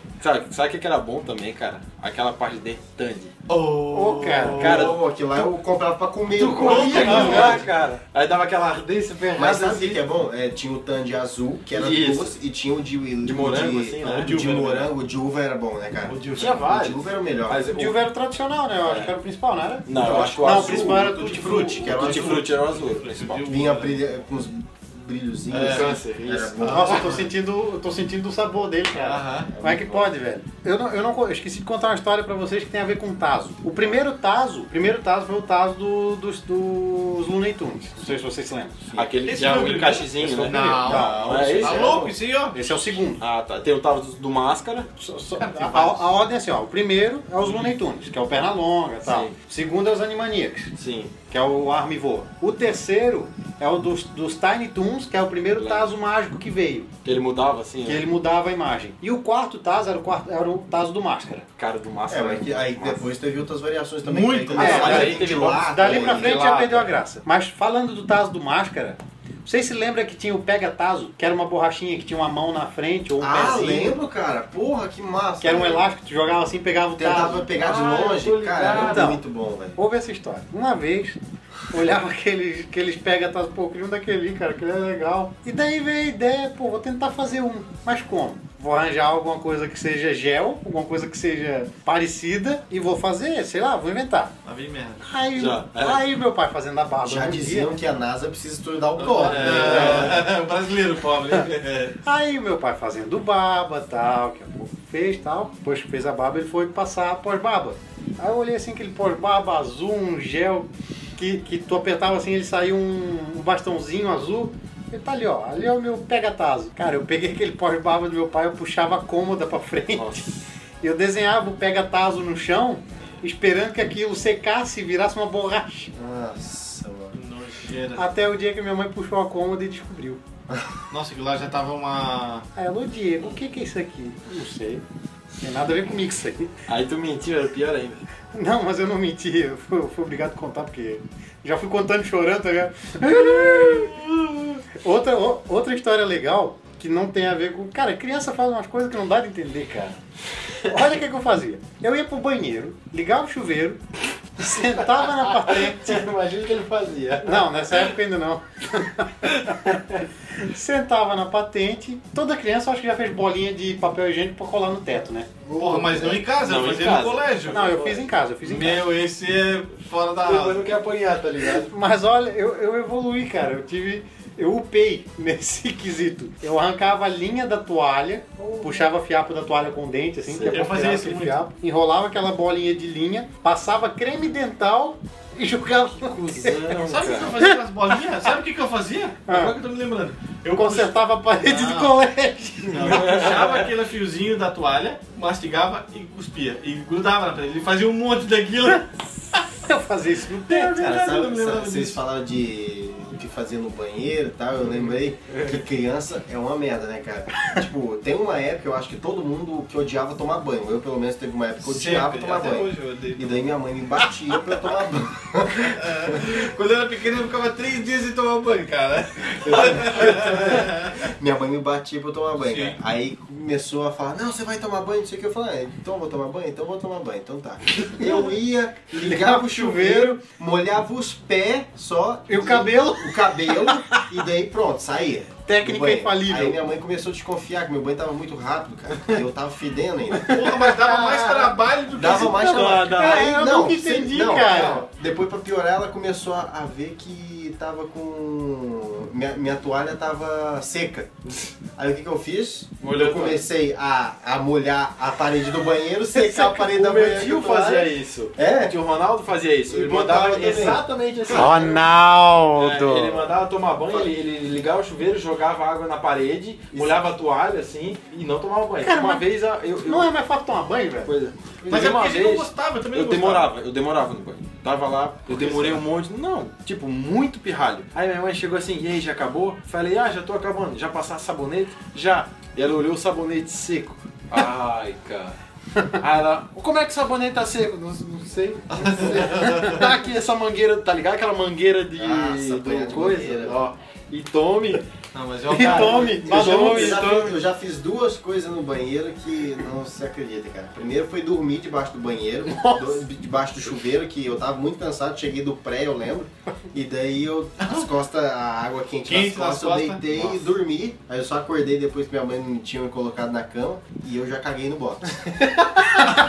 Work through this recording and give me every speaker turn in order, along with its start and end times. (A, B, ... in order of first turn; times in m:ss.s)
0:00.2-0:03.3 A
0:03.5-0:05.0 B
0:03.9-0:04.6 C
0:04.6-0:05.0 A
0:04.6-0:07.7 D
0:06.3-0:10.0 A
0:06.6-0:07.6 B
0:06.8-0:07.6 C
0:09.3-0:17.8 D
0:11.7-0:12.4 A
0:13.2-0:14.6 A
0:14.0-0:14.9 B
0:16.1-0:16.6 B
0:16.3-0:18.0 A
0:17.7-0:21.8 C
0:18.8-0:19.1 A
0:19.9-0:21.1 A
0:19.9-0:22.5 D
0:21.2-0:24.0 B
0:21.8-0:23.6 A
0:23.4-0:27.1 D
0:25.5-0:25.9 B
0:25.6-0:26.8 A
0:26.6-0:27.3 B
0:26.6-0:38.9 C
0:28.9-0:29.5 B
0:29.5-0:30.1 D
0:38.9-0:42.1 A
0:39.2-0:42.6 B
0:40.7-0:42.1 D
0:40.9-0:41.4 C
0:42.5-0:43.2 C
0:43.2-0:44.9 A
0:45.0-0:50.7 C
0:45.4-0:46.1 B
0:49.0-0:49.3 A
0:50.7-0:51.1 A
0:51.3-0:56.9 C
0:55.6-0:55.9 A
0:57.0-0:58.0 A
0:57.8-1:01.4 C
1:01.6-1:03.0 A
1:02.1-1:06.5 D
1:04.0-1:05.3 B
1:04.6-1:06.9 A
1:04.6-1:14.0 C
1:13.2-1:15.8 D
1:15.4-1:17.5 C
1:17.0-1:19.8 D
1:17.5-1:19.1 A
1:18.8-1:19.2 C
1:19.8-1:21.2 C
1:21.7-1:34.3 C
1:34.4-1:35.0 B
1:35.0-1:37.7 C
1:35.4-1:36.0 A
1:37.0-1:40.3 D
1:39.0-1:42.0 B
1:39.0-1:40.2 A
1:42.0-2:00.2 C
1:59.9-2:00.3 A
2:00.8-2:05.9 C
2:05.9-2:07.2 D
2:07.1-2:08.0 B
2:08.0-2:10.2 C
2:10.5-2:10.8 D
2:10.9-2:12.5 B
2:12.6-2:14.8 C
2:15.4-2:16.5 C
2:16.7-2:18.0 A
2:18.3-2:24.0 C
2:24.8-2:30.0 C
2:30.6-2:33.8 C
2:34.4-2:36.1 C
2:35.0-2:37.5 A
2:37.2-2:39.8 C
2:40.3-2:45.3 C
2:45.4-2:46.3 D
2:45.6-2:47.6 B
2:46.4-2:48.1 A
2:47.5-2:48.8 C
2:48.4-2:50.8 B
2:50.2-2:51.7 A
2:51.6-3:06.8 C
2:58.4-2:58.7 A
3:00.3-3:00.6 A
3:00.5-3:01.4 B
3:06.0-3:07.3 A
3:06.9-3:12.0 B
3:09.3-3:09.5 C
3:10.5-3:13.2 C
3:12.7-3:18.9 B
3:12.8-3:13.7 A
3:19.6-3:20.8 C
3:20.5-3:22.0 B
3:20.8-3:36.3 D
3:31.6-3:33.5 B
3:35.7-3:41.1 B
3:39.4-4:00.6 D
3:42.4-3:42.8 B
3:48.9-3:50.2 C
3:52.3-3:54.0 C
3:55.5-3:56.6 C
4:00.3-4:02.6 B
4:01.9-4:11.1 D
4:02.0-4:03.4 A
4:02.7-4:04.9 C
4:11.8-4:18.7 D
4:12.8-4:13.4 A
4:16.1-4:21.8 A
4:19.7-4:21.8 D
4:21.3-4:23.3 C
4:22.6-4:30.1 A
4:26.7-4:27.0 D
4:28.8-4:31.1 C
4:31.0-4:45.4 A
4:31.6-4:32.0 D
4:31.7-4:33.5 B
4:35.3-4:35.8 B
4:35.4-4:35.7 D
4:46.0-4:54.8 A
4:48.7-4:49.9 B
4:52.0-4:53.6 D
4:55.1-4:56.2 B
4:55.5-4:57.0 C
4:55.6-5:15.6 D
4:55.6-4:57.4 A
5:02.5-5:02.9 C
5:09.0-5:10.0 B